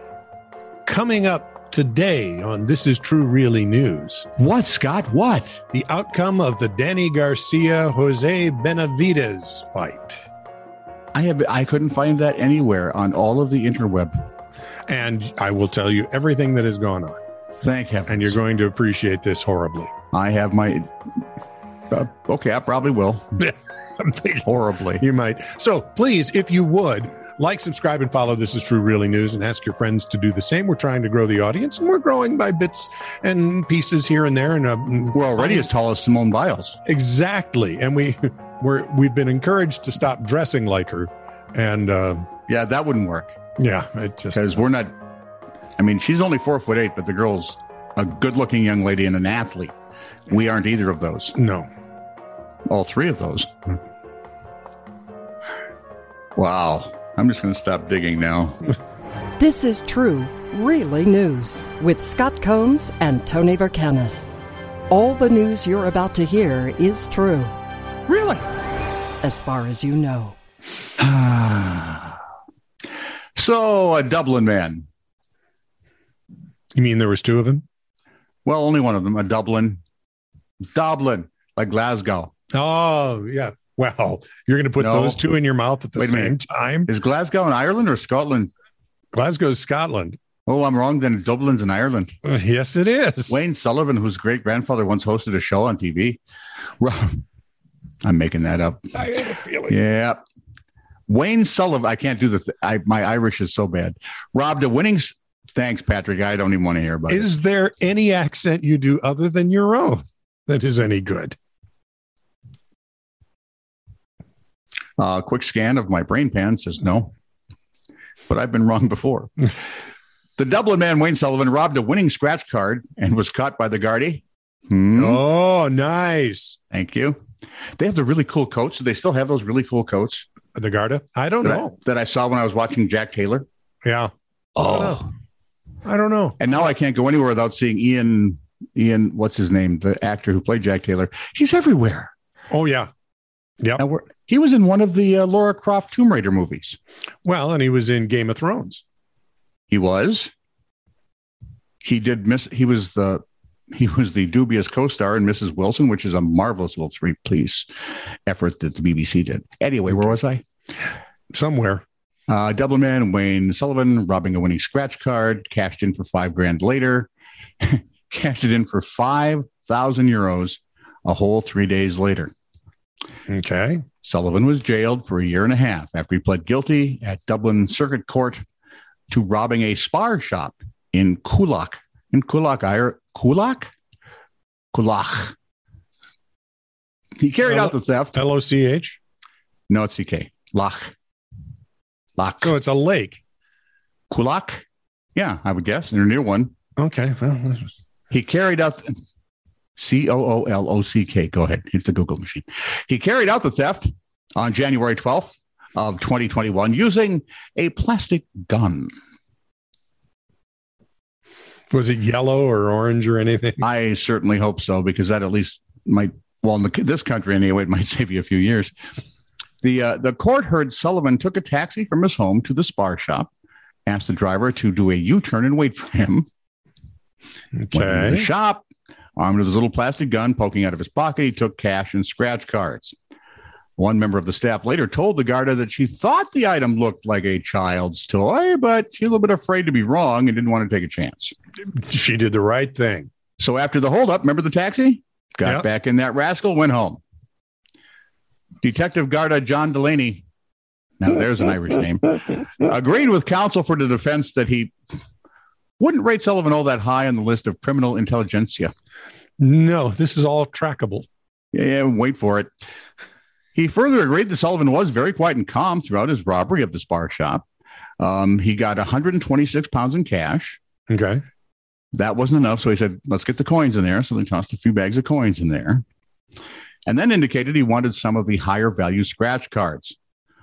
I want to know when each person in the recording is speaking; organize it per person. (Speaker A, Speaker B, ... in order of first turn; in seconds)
Speaker A: 0.8-4.3, 5.7-10.2, 14.9-17.2, 18.1-19.9, 23.4-24.4, 25.0-35.7, 36.9-42.3, 43.6-44.4, 51.3-51.7, 76.7-77.6, 82.5-86.9, 89.1-90.2, 92.2-93.3, 98.9-99.7, 107.1-111.3, 124.9-126.6, 130.5-131.8, 133.8-135.0, 135.8-136.5, 142.5-142.9, 147.2-148.8, 161.3-161.8, 173.3-173.8, 187.4-189.0, 192.4-193.2, 196.8-197.7, 211.7-213.6, 227.6-228.3, 241.7-243.1, 259.4-261.1, 270.9-271.2
Speaker B: 4.4-5.6, 11.1-14.2, 17.6-18.4, 20.1-20.9, 21.9-23.5, 24.4-25.0, 35.1-36.8, 42.5-43.3, 44.3-44.9, 45.8-49.7, 50.3-51.3, 52.7-53.5, 56.4-58.6, 68.1-68.4, 71.0-72.2, 73.3-74.8, 78.4-79.8, 80.7-82.3, 84.8-85.2, 86.0-88.5, 90.5-92.1, 93.3-96.2, 96.8-97.2, 98.0-100.2, 101.1-107.3, 115.0-117.1, 118.3-119.3, 120.4-125.2, 126.7-127.2, 127.8-130.3, 131.4-133.4, 134.6-135.1, 136.4-142.1, 143.8-146.8, 149.7-150.3, 151.8-157.7, 158.3-160.4, 162.3-167.1, 167.6-172.3, 174.0-178.4, 179.1-183.7, 184.7-185.3, 187.2-188.2, 189.7-190.9, 192.2-192.5, 194.1-194.6, 195.1-196.5, 198.1-198.9, 199.8-208.9, 213.6-218.7, 219.6-223.3, 223.8-226.3, 227.7-228.7, 229.2-232.9, 233.8-241.3, 243.4-247.0, 248.6-250.2, 251.0-254.7, 255.8-258.7, 261.5-262.5, 263.5-267.4, 268.0-270.6, 271.9-275.8, 276.9-279.9
Speaker C: 59.4-64.3, 64.9-67.5, 69.2-70.3